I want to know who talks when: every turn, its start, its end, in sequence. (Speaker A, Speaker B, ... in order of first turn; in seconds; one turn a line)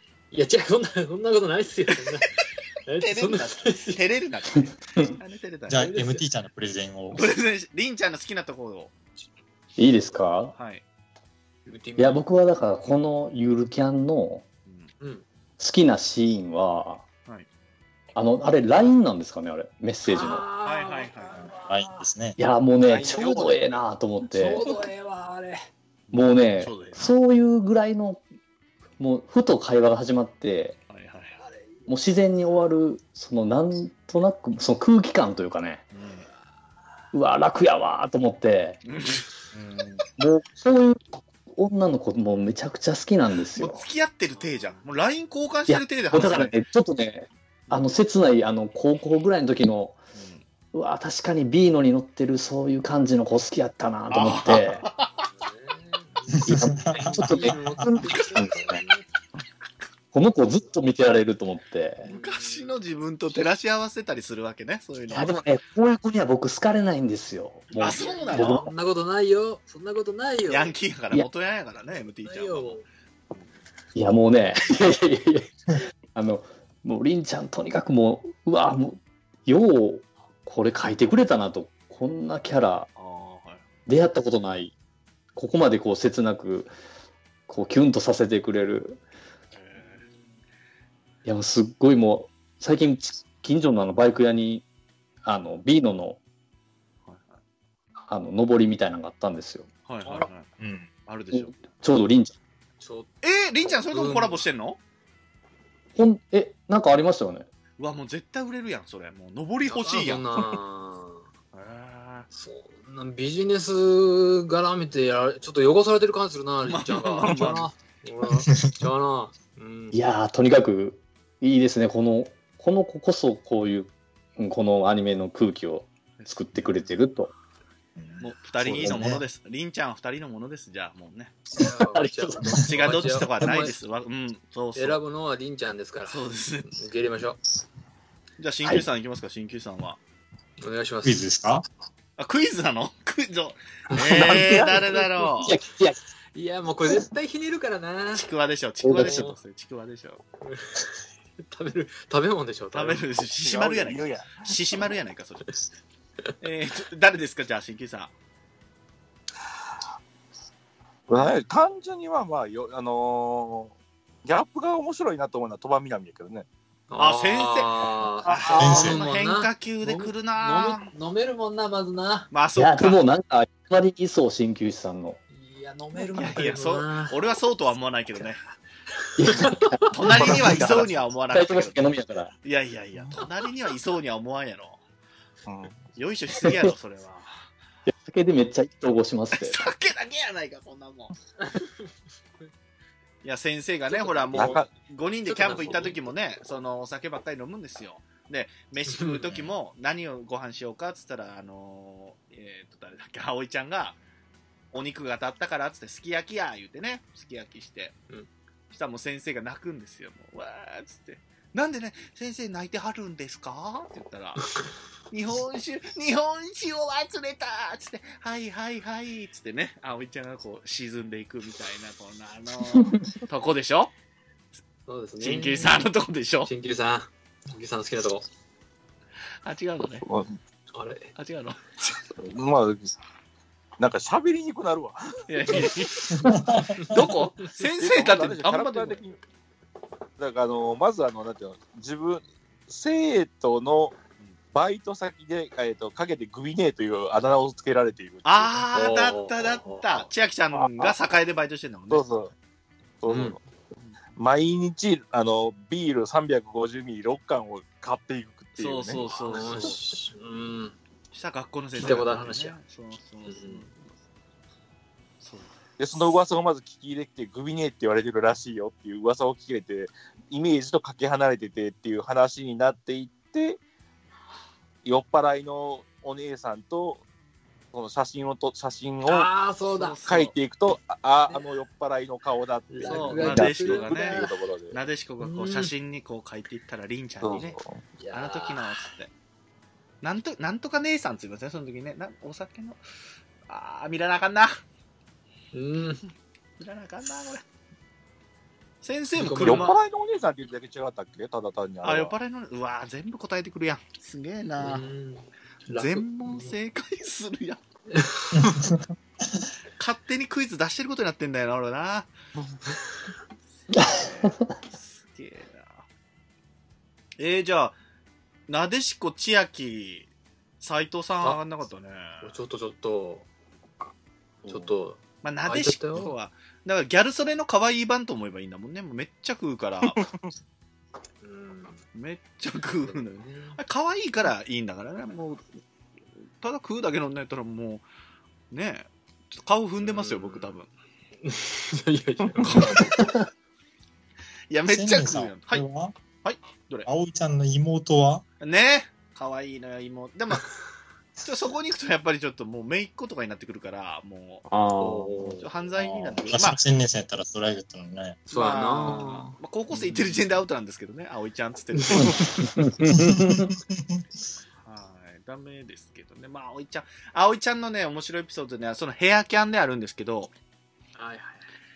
Speaker A: 0.3-4.0
Speaker B: 3.0-5.9
Speaker C: 5.7-7.3
Speaker A: 5.7-6.2
Speaker B: 7.1-8.9
Speaker D: 9.8-10.6
Speaker B: 10.6-10.8
Speaker A: 11.7-12.2
Speaker D: 12.0-14.4
Speaker B: 14.7-14.9
Speaker A: 15.0-15.2
Speaker D: 15.6-17.1
Speaker D: 18.1-20.4
Speaker A: 20.1-22.1
Speaker B: 20.6-21.4
Speaker C: 21.4-22.4
Speaker D: 22.4-24.6
Speaker A: 22.9-23.6
Speaker A: 24.2-25.7
Speaker B: 26.1-27.1
Speaker D: 26.1-28.2
Speaker D: 29.0-30.8
Speaker B: 30.9-31.4
Speaker D: 31.9-35.8
Speaker B: 35.9-36.3
Speaker D: 37.1-38.8
Speaker B: 38.9-39.3
Speaker C: 39.5-40.0
Speaker D: 40.2-43.8
Speaker B: 43.5-46.5
Speaker D: 45.7-50.0
Speaker B: 50.1-50.4
Speaker D: 50.7-54.9
Speaker B: 54.1-55.3
Speaker A: 54.6-59.1
Speaker C: 56.4-58.0
Speaker D: 56.5-58.8
Speaker B: 58.1-58.4
Speaker D: 60.1-62.1
Speaker A: 62.0-62.8
Speaker B: 62.1-65.4
Speaker D: 65.1-68.7
Speaker B: 67.8-68.7
Speaker A: 68.0-70.7
Speaker B: 70.5-73.5
Speaker A: 72.2-72.8
Speaker D: 74.0-75.5
Speaker D: 76.1-82.9
Speaker B: 83.0-83.6
Speaker D: 83.9-84.7
Speaker D: 85.3-86.7
Speaker D: 87.5-89.0
Speaker B: 89.5-90.1
Speaker D: 91.2-94.7
Speaker D: 95.2-96.2
Speaker B: 97.1-97.4
Speaker D: 98.1-99.7
Speaker B: 99.9-100.5
Speaker A: 100.0-100.3
Speaker C: 100.6-100.9
Speaker B: 101.1-101.6
Speaker D: 101.3-102.4
Speaker A: 102.8-103.1
Speaker B: 103.2-104.8
Speaker A: 103.7-104.4
Speaker D: 106.0-107.5
Speaker B: 107.8-110.2
Speaker A: 109.7-111.3
Speaker B: 111.5-112.3
Speaker A: 112.3-120.0
Speaker B: 116.7-117.7
Speaker D: 119.9-127.3
Speaker B: 126.2-126.8
Speaker C: 128.0-129.2
Speaker B: 128.2-131.4
Speaker D: 128.8-129.1
Speaker A: 131.5-133.8
Speaker D: 131.6-132.7
Speaker B: 132.7-135.0
Speaker A: 134.8-137.4
Speaker B: 136.1-136.7
Speaker B: 138.4-140.0
Speaker A: 140.6-141.2
Speaker C: 141.0-141.7
Speaker B: 142.2-145.6
Speaker D: 143.9-146.0
Speaker A: 146.3-148.3
Speaker B: 148.1-150.2
Speaker D: 148.8-149.3
Speaker A: 148.9-149.4
Speaker A: 150.4-153.0
Speaker B: 152.7-155.6
Speaker E: 153.4-154.6
Speaker B: 156.4-158.1
Speaker E: 161.1-166.5
Speaker A: 166.9-172.3
Speaker B: 167.0-170.8
Speaker C: 168.5-169.1
Speaker B: 172.3-173.0
Speaker D: 172.6-175.2
Speaker A: 175.3-177.2
Speaker B: 176.1-178.4
Speaker D: 179.2-182.3
Speaker A: 179.2-179.9
Speaker B: 179.9-181.9
Speaker B: 182.4-184.8
Speaker E: 185.5-185.8
Speaker B: 185.9-187.3
Speaker D: 186.4-186.7
Speaker D: 187.9-189.6
Speaker B: 189.3-191.2
Speaker A: 191.4-191.9
Speaker B: 193.2-204.0
Speaker A: 193.9-194.6
Speaker E: 194.3-194.7
Speaker A: 195.3-196.0
Speaker E: 195.5-195.9
Speaker A: 198.9-199.3
Speaker B: 204.7-208.0
Speaker B: 208.7-214.5
Speaker B: 215.1-223.9
Speaker A: 224.9-225.8
Speaker B: 225.2-226.5
Speaker A: 226.4-228.2
Speaker B: 229.4-230.1
Speaker E: 230.0-230.4
Speaker A: 230.7-231.1
Speaker B: 231.2-231.6
Speaker E: 232.2-232.9
Speaker E: 233.8-235.9
Speaker B: 235.3-236.1
Speaker C: 236.1-237.1
Speaker A: 236.8-237.1
Speaker B: 236.9-239.0
Speaker E: 237.8-239.2
Speaker E: 240.2-243.9
Speaker E: 244.5-248.7
Speaker B: 248.2-252.1
Speaker A: 248.7-250.1
Speaker E: 250.5-250.9
Speaker E: 251.9-252.3
Speaker E: 253.0-253.4
Speaker A: 253.1-253.4
Speaker E: 254.2-259.8
Speaker B: 258.6-259.8
Speaker A: 259.3-260.8
Speaker B: 261.1-264.0
Speaker A: 261.8-262.6
Speaker A: 263.3-263.7
Speaker B: 265.2-265.5
Speaker E: 265.8-273.6
Speaker E: 274.9-277.0
Speaker E: 277.7-279.3
Speaker A: 279.1-280.0
Speaker B: 279.7-280.3
Speaker E: 280.1-284.8
Speaker A: 282.7-284.3
Speaker B: 282.9-287.6
Speaker A: 285.2-285.7
Speaker E: 287.2-287.8
Speaker A: 288.0-288.9
Speaker B: 288.1-289.1
Speaker B: 290.0-292.8
Speaker B: 293.5-294.6
Speaker A: 295.5-296.0
Speaker B: 296.6-297.4
Speaker B: 298.8-299.8
Speaker A: 299.1-299.7
Speaker E: 299.4-302.1
Speaker B: 301.8-304.9
Speaker A: 304.6-306.6
Speaker B: 305.7-307.6
Speaker A: 307.9-308.7
Speaker C: 308.4-308.9
Speaker B: 309.8-312.1
Speaker B: 313.7-315.9
Speaker D: 313.7-314.5
Speaker B: 317.2-317.8
Speaker B: 318.5-320.1
Speaker B: 320.6-322.3
Speaker A: 322.2-323.3
Speaker A: 324.5-326.1
Speaker B: 325.2-330.0
Speaker E: 329.8-330.3
Speaker A: 331.2-331.8
Speaker B: 331.9-335.4
Speaker A: 332.8-333.6
Speaker B: 336.4-337.9
Speaker B: 338.5-340.7
Speaker A: 339.8-340.5
Speaker A: 341.2-343.0
Speaker B: 342.4-342.9
Speaker D: 343.0-343.2
Speaker B: 344.5-345.6
Speaker C: 344.7-345.9
Speaker B: 346.2-346.9
Speaker C: 346.9-348.2
Speaker B: 348.4-350.5
Speaker B: 351.2-356.6
Speaker D: 354.5-355.4
Speaker C: 356.3-358.3
Speaker A: 358.3-360.1
Speaker B: 358.3-362.3
Speaker A: 361.8-362.4
Speaker D: 362.0-363.5
Speaker C: 362.9-364.0
Speaker B: 364.6-370.3
Speaker A: 371.0-371.4